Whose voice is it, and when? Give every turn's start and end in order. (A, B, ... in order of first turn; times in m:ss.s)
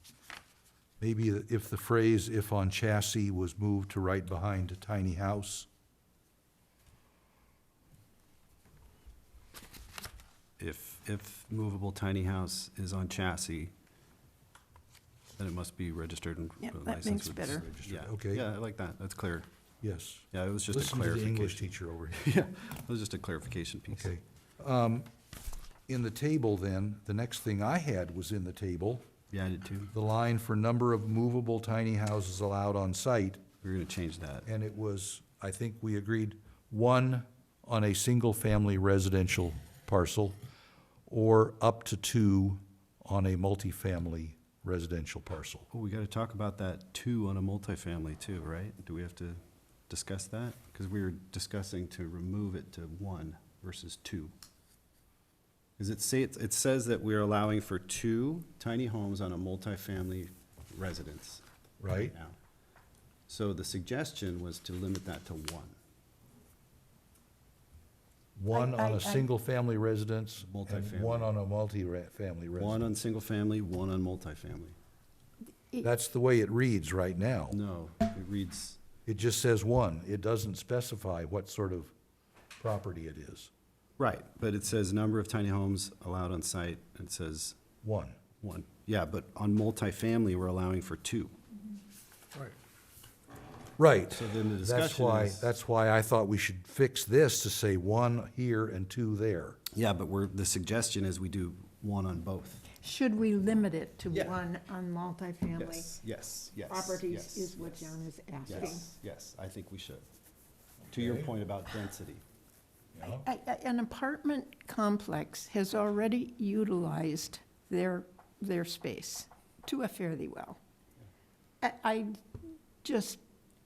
0:01.0-0:05.7 A
0:10.6-0:13.7 B
0:15.4-0:19.5 B
0:16.6-0:17.7 C
0:17.8-0:18.4 A
0:19.8-0:22.2 A
0:20.3-0:24.1 B
0:23.9-0:25.1 A
0:25.9-0:29.0 A
0:29.3-0:29.9 B
0:29.9-0:33.4 A
0:33.6-0:34.5 B
0:34.4-0:40.4 A
0:41.1-0:45.6 A
0:45.7-0:54.3 B
0:55.8-1:02.4 B
1:01.8-1:02.1 A
1:03.3-1:05.8 B
1:08.4-1:12.9 A
1:08.5-1:09.2 C
1:10.4-1:11.3 B
1:12.6-1:14.8 B
1:15.8-1:17.6 A
1:17.5-1:18.8 B
1:19.0-1:21.9 A
1:22.6-1:23.5 A
1:24.0-1:27.6 B
1:27.8-1:28.2 A
1:28.4-1:31.3 B
1:33.8-1:39.6 A
1:34.1-1:35.5 B
1:39.7-1:42.6 B
1:42.8-1:45.9 C
1:44.1-1:44.4 B
1:45.6-1:47.9 B
1:46.7-1:48.9 C
1:48.4-1:50.0 B
1:50.9-1:52.2 B
1:51.0-1:51.3 A
1:52.9-1:53.3 A
1:53.0-2:00.6 C
2:01.6-2:02.2 C
2:02.8-2:03.2 C